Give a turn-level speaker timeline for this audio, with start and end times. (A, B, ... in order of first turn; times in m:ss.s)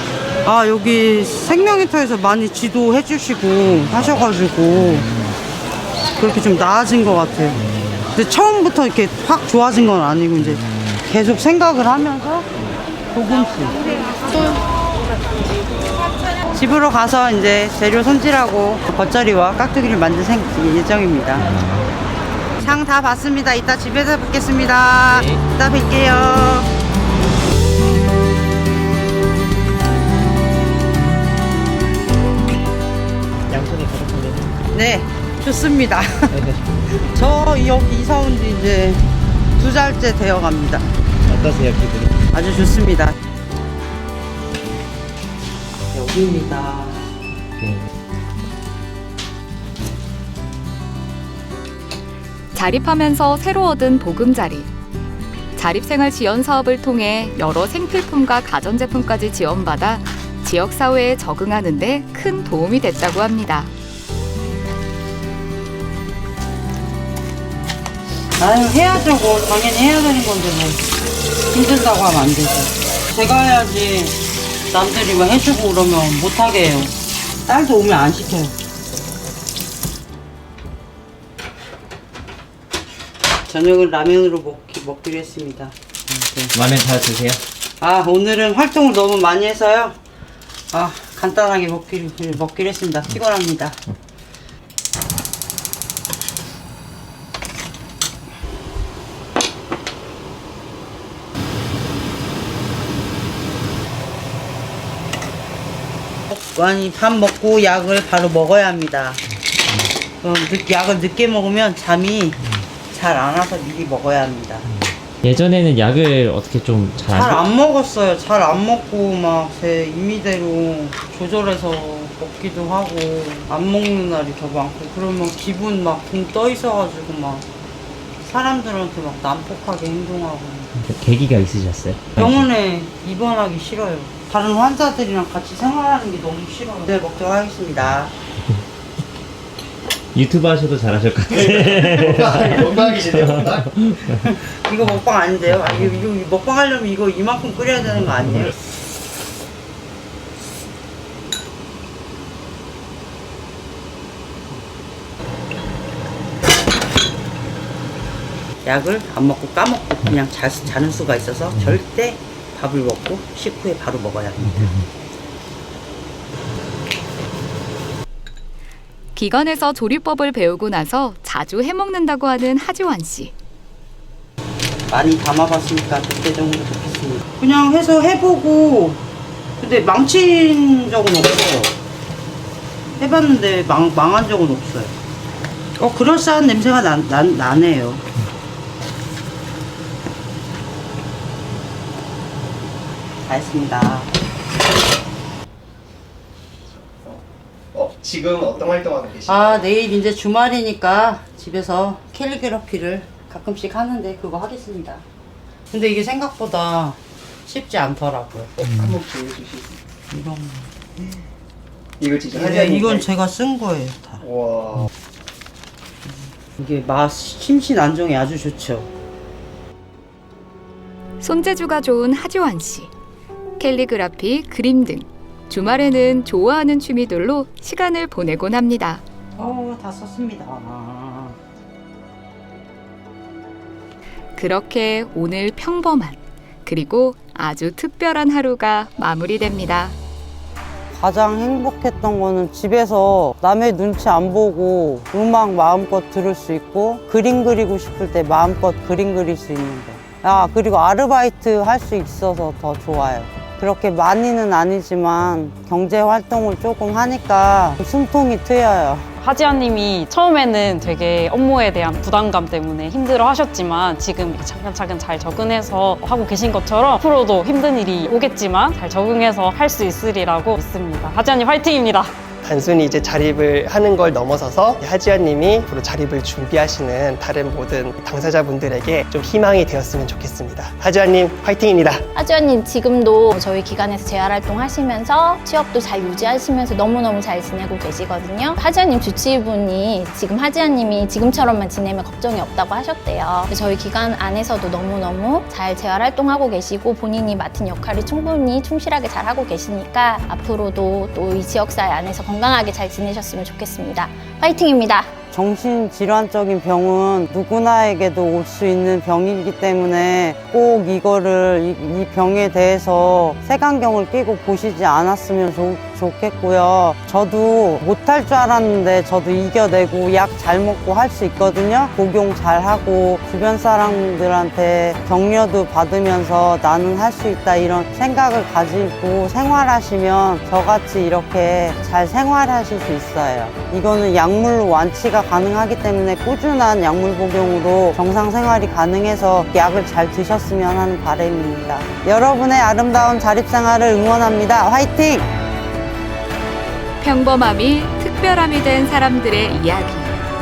0:00.4-0:05.1 A
0:03.6-0:05.4 B
0:06.2-0:07.6 A
0:07.6-0:08.1 B
0:08.1-0:12.5 A
0:10.4-0:11.0 B
0:13.1-0:14.6 A
0:16.5-0:21.5 A
0:21.4-0:21.9 B
0:22.6-0:26.7 A
0:25.1-0:25.4 B
0:33.5-0:34.6 B
0:34.7-0:36.3 A
0:36.3-0:36.7 B
0:36.9-0:39.0 A
0:39.6-0:40.9 A
0:41.2-0:42.2 B
0:42.3-0:43.2 A
0:45.9-0:47.1 A
0:47.6-0:47.9 B
0:52.5-0:54.7 C
0:55.6-1:03.7 C
1:08.4-1:10.8 A
1:11.5-1:14.2 A
1:14.7-1:17.0 A
1:17.5-1:18.6 A
1:23.5-1:26.5 A
1:26.5-1:27.4 B
1:27.8-1:30.0 A
1:30.7-1:33.8 A
1:46.3-1:49.2 A
1:49.7-1:49.9 B
1:50.2-1:52.4 A
1:52.9-1:54.6 A
1:54.7-1:57.4 B
1:57.1-2:07.5 A
2:08.2-2:10.7 A
2:10.8-2:12.5 B
2:12.2-2:18.1 A
2:20.1-2:24.2 B
2:22.1-2:23.4 D
2:24.2-2:28.5 A
2:38.6-2:44.8 A
2:44.6-2:44.8 B
2:49.2-2:53.3 C
2:54.9-2:59.0 A
2:59.6-3:01.8 A
3:03.0-3:05.0 A
3:05.8-3:08.0 A
3:13.2-3:14.1 A
3:17.7-3:19.6 D
3:19.3-3:25.1 A
3:25.7-3:28.5 A
3:28.6-3:29.8 D
3:30.1-3:30.7 A
3:32.0-3:33.1 D
3:32.3-3:34.2 A
3:34.2-3:34.9 D
3:36.4-3:38.9 A
3:41.2-3:42.9 C
3:43.6-3:49.0 C
3:49.4-3:51.4 A
3:54.4-4:00.0 C
4:00.9-4:19.1 A
4:19.2-4:32.1 E
4:32.4-4:42.0 D
4:42.2-5:05.2 F
5:05.3-5:45.3 A
5:47.0-5:50.2 C